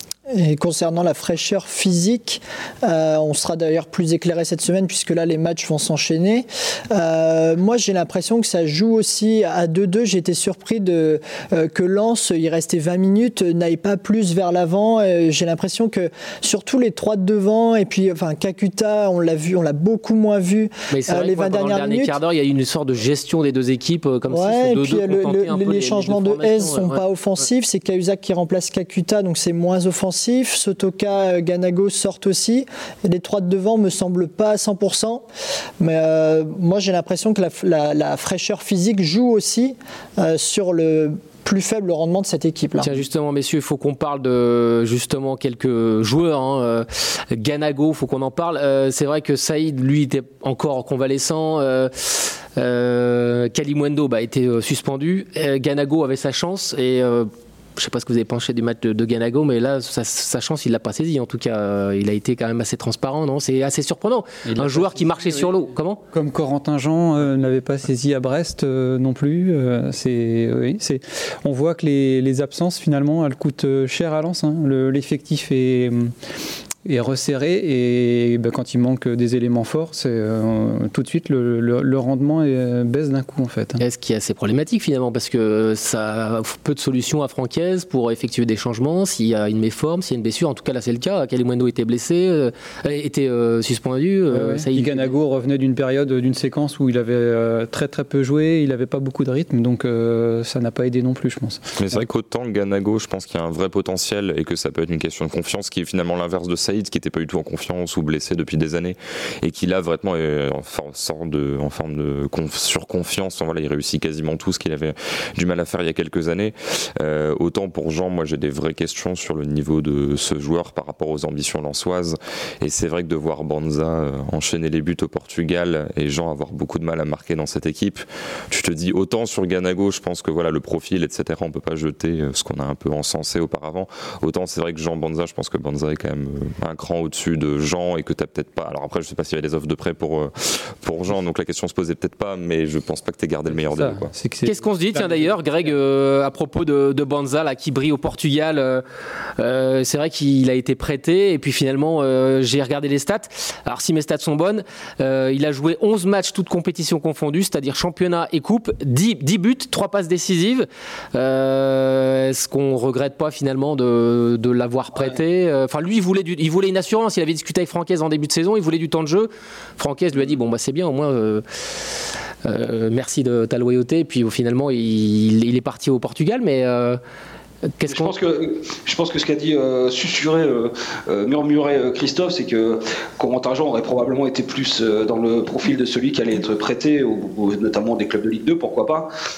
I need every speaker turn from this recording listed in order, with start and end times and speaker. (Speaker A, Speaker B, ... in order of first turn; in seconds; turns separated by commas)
Speaker A: 0.3-22.2, Speaker B: 20.9-27.0, Speaker A: 24.3-35.2, Speaker A: 35.8-43.0, Speaker B: 42.8-66.0, Speaker C: 64.5-65.6, Speaker C: 66.1-76.1, Speaker C: 76.8-83.8, Speaker B: 83.8-95.1, Speaker C: 94.3-102.0, Speaker D: 101.8-144.1, Speaker C: 143.5-145.4, Speaker B: 144.4-148.8, Speaker B: 149.4-171.4, Speaker B: 172.4-177.0, Speaker B: 177.8-178.1, Speaker E: 177.9-189.1